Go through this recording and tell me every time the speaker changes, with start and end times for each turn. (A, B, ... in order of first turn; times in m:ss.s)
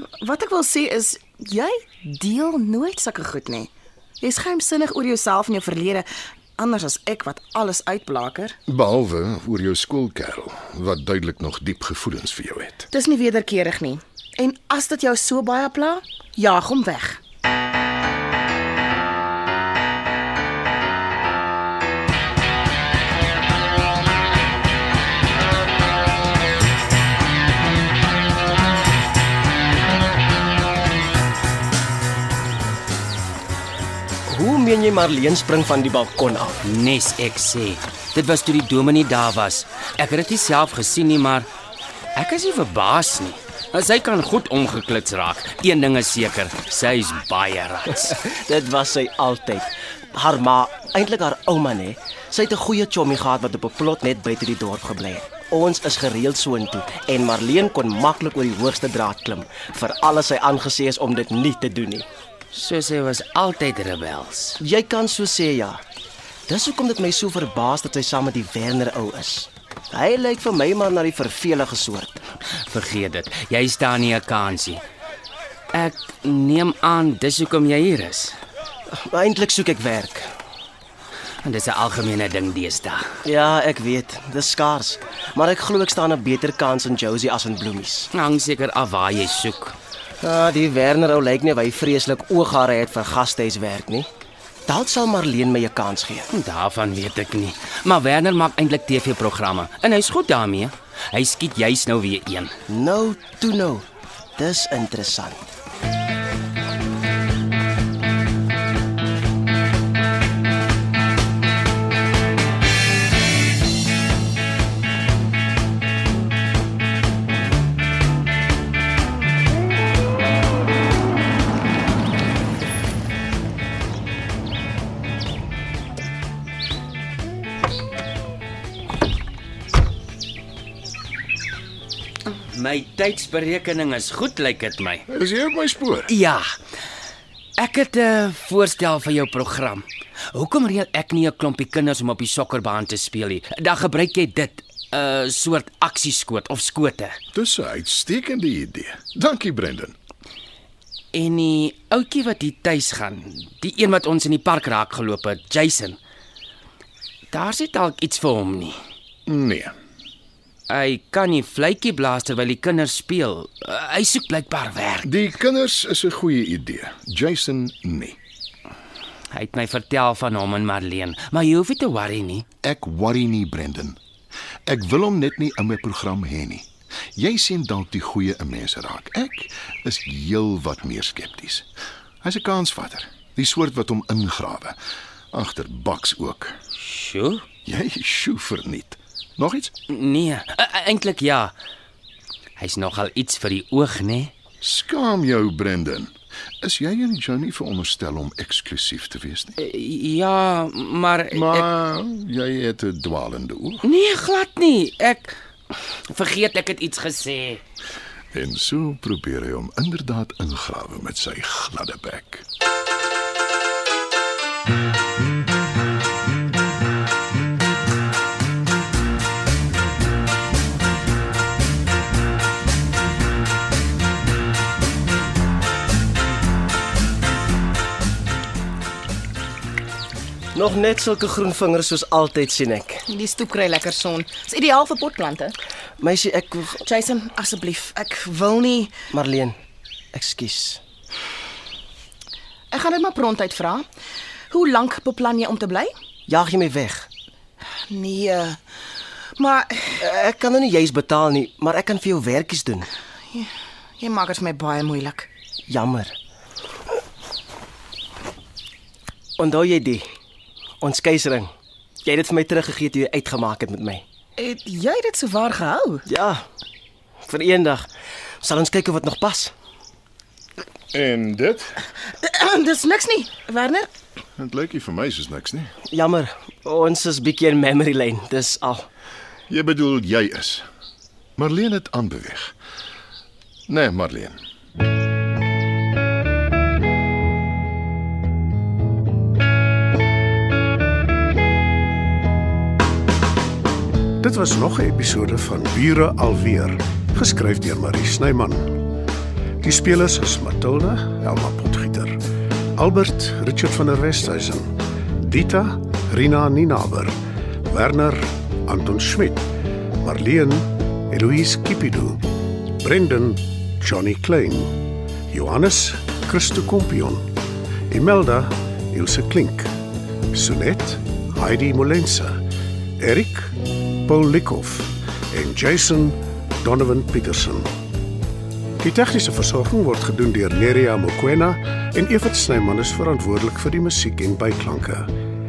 0:00.2-0:08.6 A
0:08.7-0:12.9 B
0:12.9-0:17.2 A
0:34.3-0:36.6 C
0:36.6-0:41.5 D
0:42.2-0:48.2 D
0:48.1-1:02.1 C
1:02.5-1:04.6 D
1:04.6-1:05.8 C
1:06.5-1:12.2 C
1:12.6-1:14.8 D
1:15.7-1:18.4 D
1:18.9-1:20.3 C
1:21.4-1:23.1 D
1:23.2-1:28.1 C
1:28.1-1:29.8 D
1:30.2-1:34.1 C
1:34.7-1:36.3 C
1:36.3-1:42.5 D
1:42.7-1:43.8 C
1:44.4-1:45.5 C
2:12.3-2:15.0 D
2:15.1-2:16.1 B
2:16.1-2:16.4 D
2:17.6-2:27.2 D
2:27.3-2:29.9 B
2:31.1-2:36.0 D
2:37.3-2:38.8 D
2:39.3-2:39.7 B
2:40.7-2:45.1 D
2:45.0-2:48.2 B
2:49.3-2:52.4 D
2:52.6-2:54.0 B
2:54.6-3:01.7 B
3:02.2-3:04.8 B
3:05.3-3:06.5 B
3:06.8-3:07.4 D
3:07.6-3:09.7 B
3:09.9-3:11.5 D
3:12.6-3:14.3 D
3:14.6-3:19.6 B
3:19.6-3:21.7 D
3:21.3-3:23.8 B
3:23.8-3:25.3 D
3:26.1-3:27.6 D
3:28.3-3:32.4 B
3:50.5-3:53.0 C
3:53.1-3:55.6 A
3:56.0-3:56.8 C
3:56.8-3:59.0 A
3:59.1-3:59.6 C
4:00.1-4:00.8 C
4:02.7-4:03.9 A
4:04.5-4:05.9 A
4:06.3-4:07.1 C
4:07.9-4:08.6 A
4:09.4-4:10.0 A
4:10.0-4:12.9 C
4:13.3-4:15.3 A
4:15.7-4:16.1 C
4:19.4-4:20.0 C
4:20.8-4:21.5 C
4:22.0-4:24.0 C
4:24.4-4:26.0 A
4:26.0-4:26.4 C
4:27.3-4:27.9 C
4:28.4-4:29.5 C
4:30.9-4:31.8 B
4:32.0-4:33.9 A
4:34.4-4:35.7 B
4:35.9-4:38.9 C
4:39.5-4:40.6 B
4:41.4-4:42.5 B
4:43.7-4:44.4 B
4:54.2-4:58.8 E
4:59.6-5:02.2 E
5:02.8-5:04.7 E
5:05.2-5:07.1 E
5:07.7-5:09.5 E
5:10.0-5:12.2 E
5:12.8-5:14.8 E
5:15.3-5:17.3 E
5:17.9-5:19.7 E
5:20.3-5:22.4 E
5:23.0-5:27.7 E
5:28.8-5:35.1 E